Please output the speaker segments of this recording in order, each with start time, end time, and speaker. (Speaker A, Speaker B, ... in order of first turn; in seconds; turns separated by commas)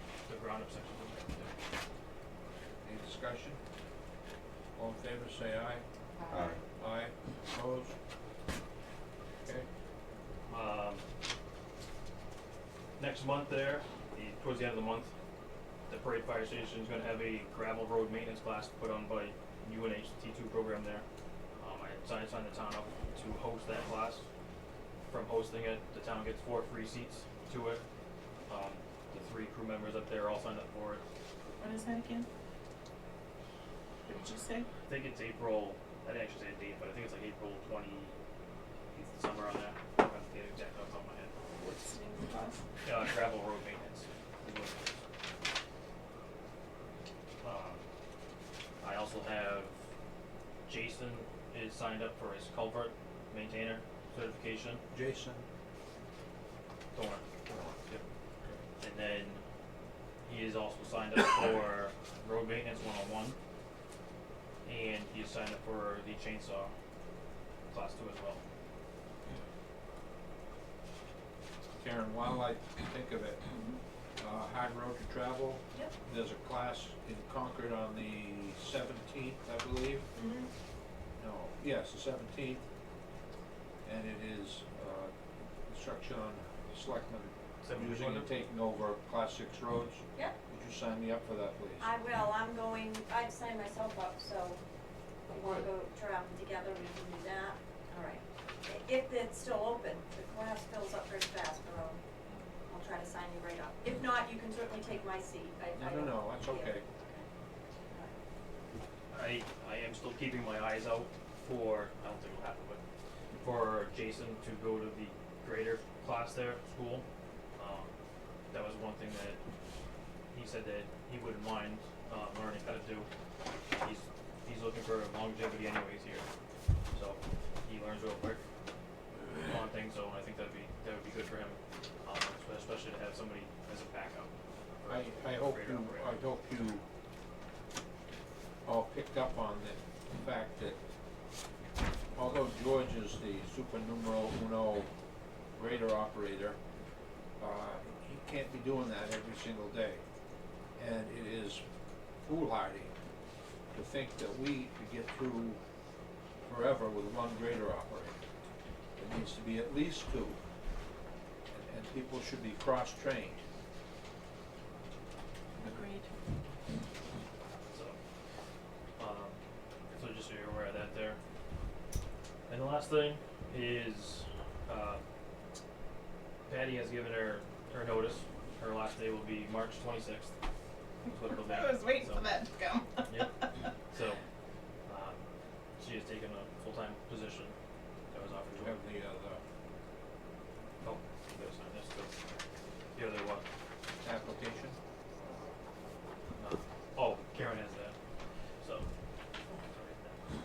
Speaker A: 0.3-1.5, Speaker B: 2.8-3.6, Speaker B: 4.8-5.8, Speaker B: 6.8-8.0, Speaker B: 9.4-9.7, Speaker A: 10.5-11.0, Speaker A: 13.0-15.1, Speaker A: 15.9-21.1, Speaker A: 21.6-24.3, Speaker A: 25.1-27.8, Speaker A: 28.5-31.0, Speaker C: 31.6-32.3, Speaker C: 34.0-34.7, Speaker A: 34.9-38.1, Speaker A: 38.9-41.3, Speaker C: 41.5-42.6, Speaker A: 42.8-45.0, Speaker A: 47.4-47.8, Speaker A: 48.8-49.7, Speaker A: 50.7-54.8, Speaker B: 54.9-55.5, Speaker A: 56.9-57.2, Speaker B: 57.5-57.7, Speaker A: 58.8-59.4, Speaker A: 60.2-63.4, Speaker A: 64.6-66.7, Speaker A: 67.7-68.4, Speaker B: 71.8-73.4, Speaker B: 74.2-80.0, Speaker D: 80.1-80.5, Speaker B: 81.2-82.6, Speaker B: 83.8-85.1, Speaker B: 85.7-91.9, Speaker A: 87.6-88.3, Speaker D: 91.8-94.6, Speaker D: 95.3-102.0, Speaker B: 95.3-95.7, Speaker D: 102.7-107.3, Speaker B: 105.8-106.8, Speaker A: 109.1-112.8, Speaker A: 113.4-117.0, Speaker A: 117.6-117.9, Speaker A: 118.5-119.4, Speaker A: 120.3-123.1, Speaker A: 123.8-126.3, Speaker A: 126.9-128.4, Speaker A: 129.4-136.2, Speaker B: 134.9-136.8, Speaker B: 138.7-140.8, Speaker B: 142.2-144.9, Speaker B: 145.6-146.6, Speaker B: 147.4-150.0, Speaker B: 150.8-151.6, Speaker B: 152.2-152.9, Speaker B: 153.7-155.6, Speaker B: 156.4-158.2, Speaker B: 159.0-160.4, Speaker B: 161.5-163.4, Speaker C: 165.6-166.1, Speaker A: 167.7-168.0, Speaker A: 169.0-169.4, Speaker A: 169.9-171.2, Speaker A: 172.5-175.0, Speaker A: 176.5-180.3, Speaker A: 181.1-182.3, Speaker C: 181.4-183.1, Speaker A: 183.1-184.2, Speaker A: 184.9-185.2, Speaker A: 185.8-187.6, Speaker A: 188.1-188.8, Speaker B: 188.5-189.4, Speaker A: 190.8-192.1, Speaker A: 192.9-193.4, Speaker B: 194.0-194.8, Speaker A: 196.4-198.0, Speaker A: 198.6-198.9, Speaker A: 199.5-200.2